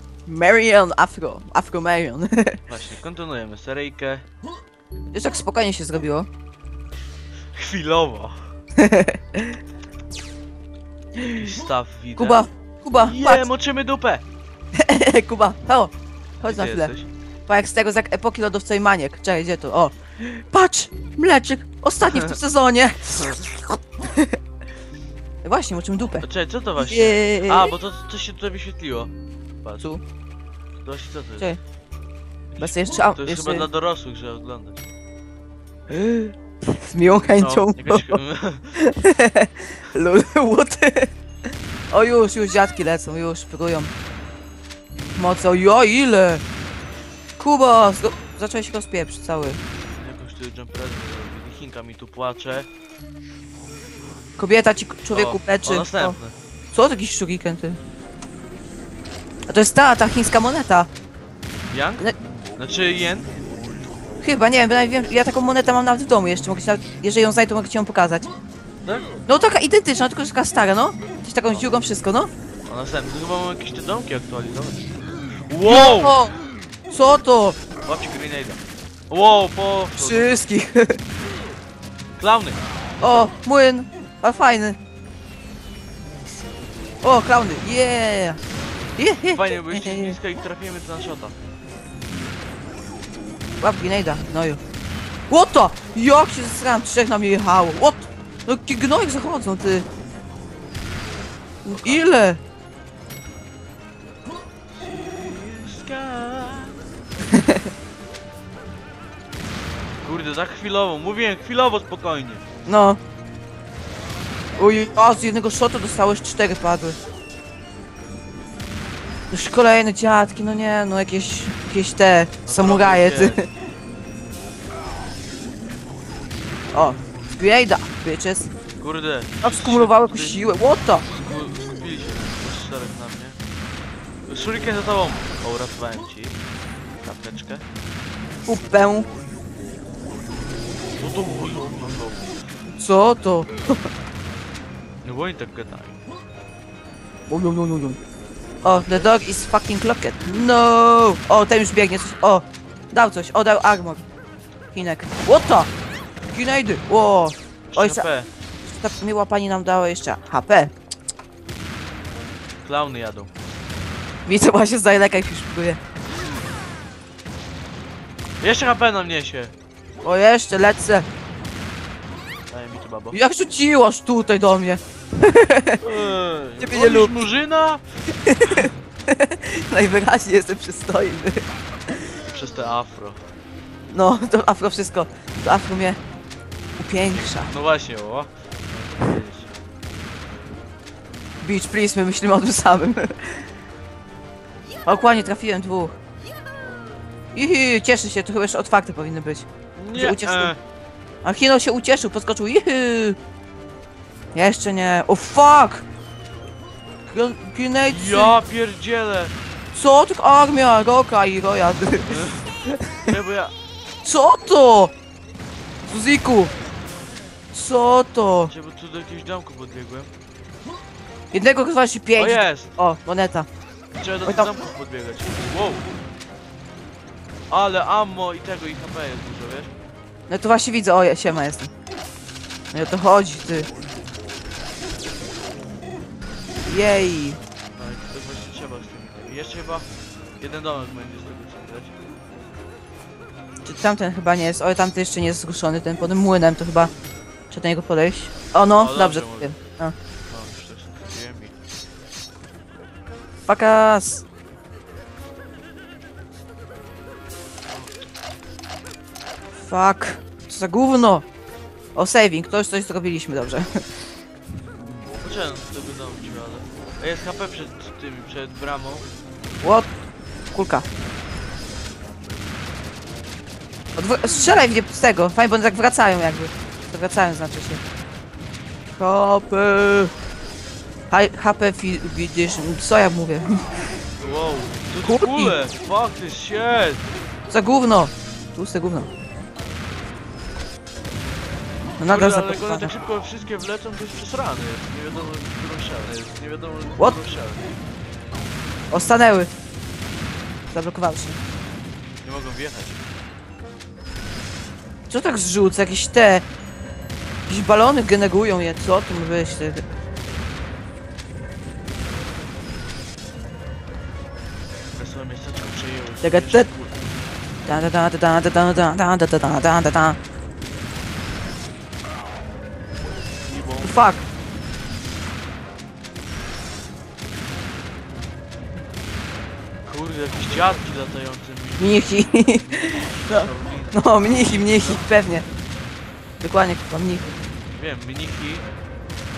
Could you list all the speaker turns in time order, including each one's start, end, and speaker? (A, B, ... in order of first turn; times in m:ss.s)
0:00.3-0:02.6 A
0:02.7-0:04.2 B
0:05.1-0:06.3 A
0:07.5-0:08.5 B
0:08.8-0:09.6 A
0:11.2-0:11.4 A
0:11.4-0:14.2 B
0:12.2-0:13.4 A
0:14.8-0:16.9 A
0:16.4-0:17.1 B
0:17.5-0:24.3 A
0:22.1-0:22.4 B
0:25.4-0:26.3 A
0:26.2-0:29.1 B
0:26.8-0:27.7 A
0:30.8-0:31.6 B
0:32.6-0:34.9 B
0:32.6-0:33.7 A
0:35.9-0:38.2 A
0:37.4-0:38.8 B
0:38.7-0:41.1 A
0:41.9-0:43.9 A
0:45.2-0:46.4 A
0:47.4-0:49.6 A
0:49.9-0:52.7 B
0:54.4-0:56.2 A
0:55.1-0:56.4 B
0:56.7-0:57.8 A
0:59.5-1:00.9 A
1:01.7-1:03.3 B
1:04.2-1:08.3 A
1:08.8-1:09.1 B
1:09.3-1:12.3 A
1:12.7-1:14.9 B
1:15.5-1:16.2 B
1:15.6-1:16.3 A
1:16.9-1:17.6 A
1:17.8-1:20.4 B
1:20.0-1:21.0 A
1:22.2-1:23.3 B
1:23.0-1:24.8 A
1:27.0-1:28.4 A
1:29.0-1:30.2 A
1:29.3-1:31.3 B
1:33.6-1:34.6 A
1:35.3-1:39.9 A
1:41.6-1:42.4 A
1:41.7-1:42.1 B
1:44.7-1:46.8 B
1:47.3-1:47.6 A
1:50.0-1:52.5 B
1:52.7-1:53.0 A
1:54.6-1:57.0 A
1:59.3-2:03.4 A
2:02.5-2:03.5 B
2:06.7-2:08.5 A
2:08.8-2:13.4 B
2:09.4-2:11.1 A
2:14.3-2:16.4 B
2:17.0-2:17.6 B
2:18.5-2:19.1 A
2:21.0-2:22.4 B
2:22.7-2:23.8 A
2:25.0-2:26.0 B
2:27.3-2:28.0 A
2:28.6-2:34.1 A
2:28.7-2:29.1 B
2:34.7-2:35.7 A
2:36.3-2:38.0 A
2:37.7-2:38.3 B
2:38.7-2:40.7 A
2:42.6-2:43.3 B
2:44.3-2:45.8 A
2:48.4-2:49.5 B
2:50.0-2:51.1 A
2:52.5-2:53.2 B
2:53.1-2:55.8 A
2:55.8-2:57.8 B
2:56.6-2:57.2 A
2:58.2-3:02.0 A
3:02.3-3:03.2 B
3:03.9-3:06.0 A
3:06.8-3:07.5 A
3:07.1-3:09.5 B
3:11.4-3:13.5 A
3:14.9-3:16.0 A
3:17.3-3:20.5 A
3:19.8-3:20.6 B
3:21.2-3:23.2 A
3:24.3-3:25.8 A
3:27.1-3:28.4 A
3:27.9-3:29.3 B
3:29.7-3:33.1 A
3:32.1-3:32.5 B
3:33.0-3:33.5 B
3:34.0-3:34.9 A
3:35.9-3:36.5 A
3:37.5-3:38.5 A
3:38.5-3:40.1 B
3:41.3-3:43.5 A
3:42.2-3:42.8 B
3:44.0-3:45.9 B
3:47.5-3:49.7 B
3:50.3-3:51.7 A
3:52.7-3:53.7 A
3:56.7-3:57.4 A
3:57.8-3:59.9 B
4:00.4-4:02.0 B
4:03.6-4:06.9 A
4:07.5-4:09.9 A
4:08.8-4:09.6 B
4:10.3-4:11.5 B
4:13.5-4:14.2 A
4:19.6-4:21.2 A
4:22.0-4:23.8 A
4:25.2-4:29.1 B
4:29.6-4:29.9 A
4:30.5-4:30.9 A
4:34.0-4:37.8 A
4:39.0-4:40.1 A
4:41.1-4:43.7 A
4:44.2-4:47.1 B
4:45.0-4:45.6 A
4:47.5-4:49.1 A
4:52.0-4:52.9 A
4:52.0-4:57.7 B
4:58.9-4:59.5 A
5:00.7-5:01.4 A
5:02.2-5:03.0 B
5:05.1-5:06.4 A
5:07.5-5:09.8 A
5:15.0-5:17.0 B
5:16.2-5:16.7 A
5:17.7-5:20.2 A
5:23.4-5:24.0 B
5:23.8-5:24.2 A
5:29.9-5:35.1 B
5:31.8-5:35.5 A
5:36.4-5:37.3 A
5:37.8-5:38.7 B